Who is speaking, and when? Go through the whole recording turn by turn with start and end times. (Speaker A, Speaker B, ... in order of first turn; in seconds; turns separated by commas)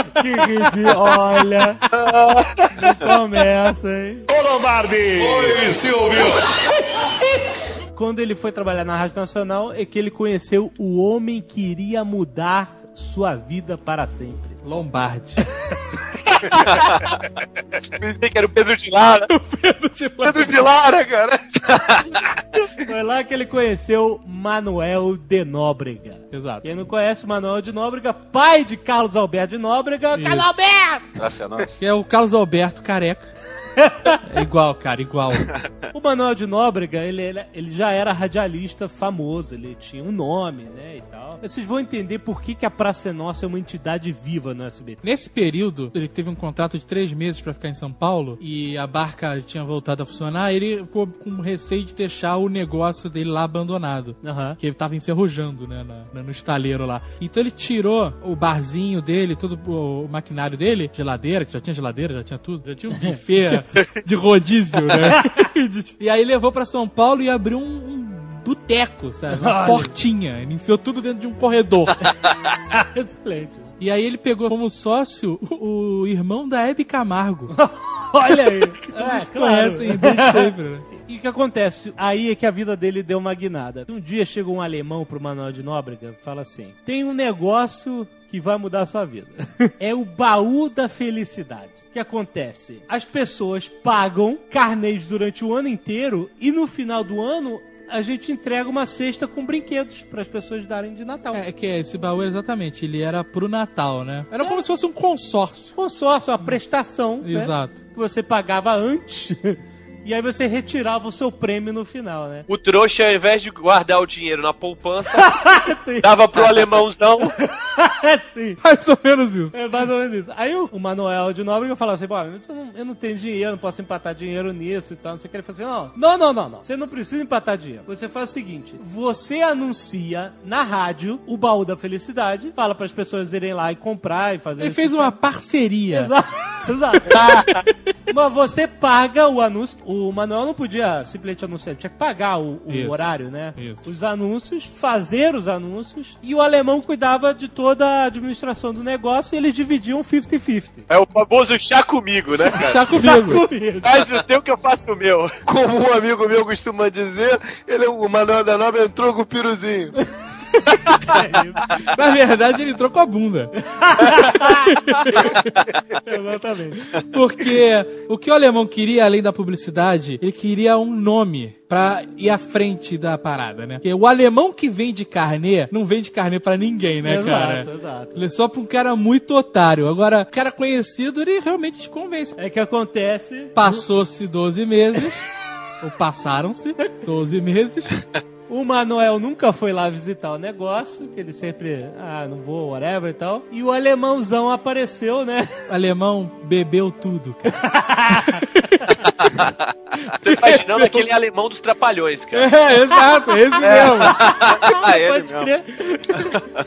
Speaker A: 0.2-1.8, Speaker A: 2.8-4.3, Speaker B: 4.3-6.4, Speaker A: 8.0-14.6, Speaker C: 14.6-15.4, Speaker D: 18.0-19.3, Speaker C: 19.3-20.6, Speaker E: 20.2-21.4, Speaker A: 22.9-31.1, Speaker C: 26.3-26.7, Speaker C: 30.1-30.6, Speaker F: 31.2-31.8, Speaker C: 31.8-33.3, Speaker A: 33.8-34.2, Speaker C: 34.2-35.5, Speaker A: 35.9-45.0, Speaker C: 45.0-72.1, Speaker A: 54.2-54.6, Speaker A: 69.3-69.9, Speaker A: 72.7-73.7, Speaker C: 73.8-77.5, Speaker A: 77.5-101.4, Speaker C: 78.9-80.9, Speaker C: 101.3-105.7, Speaker A: 105.8-112.5, Speaker C: 107.2-107.8, Speaker D: 112.5-115.4, Speaker A: 115.1-116.5, Speaker D: 116.0-117.4, Speaker A: 117.2-118.6, Speaker C: 118.6-119.6, Speaker A: 119.5-135.2, Speaker C: 134.6-136.1, Speaker A: 135.9-137.5, Speaker A: 138.1-150.9, Speaker C: 142.7-143.8, Speaker D: 150.9-153.1, Speaker C: 152.5-153.4, Speaker A: 152.9-154.1, Speaker D: 153.8-155.4, Speaker E: 155.4-160.0, Speaker A: 160.9-161.8, Speaker C: 161.8-163.5, Speaker A: 163.7-164.7, Speaker C: 164.3-165.5, Speaker A: 166.1-166.8, Speaker C: 166.9-182.4, Speaker A: 177.0-178.2, Speaker A: 182.4-183.8, Speaker C: 183.6-185.3, Speaker C: 185.8-188.0, Speaker A: 188.5-195.5, Speaker C: 195.7-197.6, Speaker A: 197.6-198.4, Speaker C: 198.2-198.9, Speaker D: 200.2-202.6, Speaker C: 200.2-201.1, Speaker C: 202.3-204.2, Speaker A: 202.9-206.4, Speaker F: 203.6-205.5, Speaker F: 206.1-206.4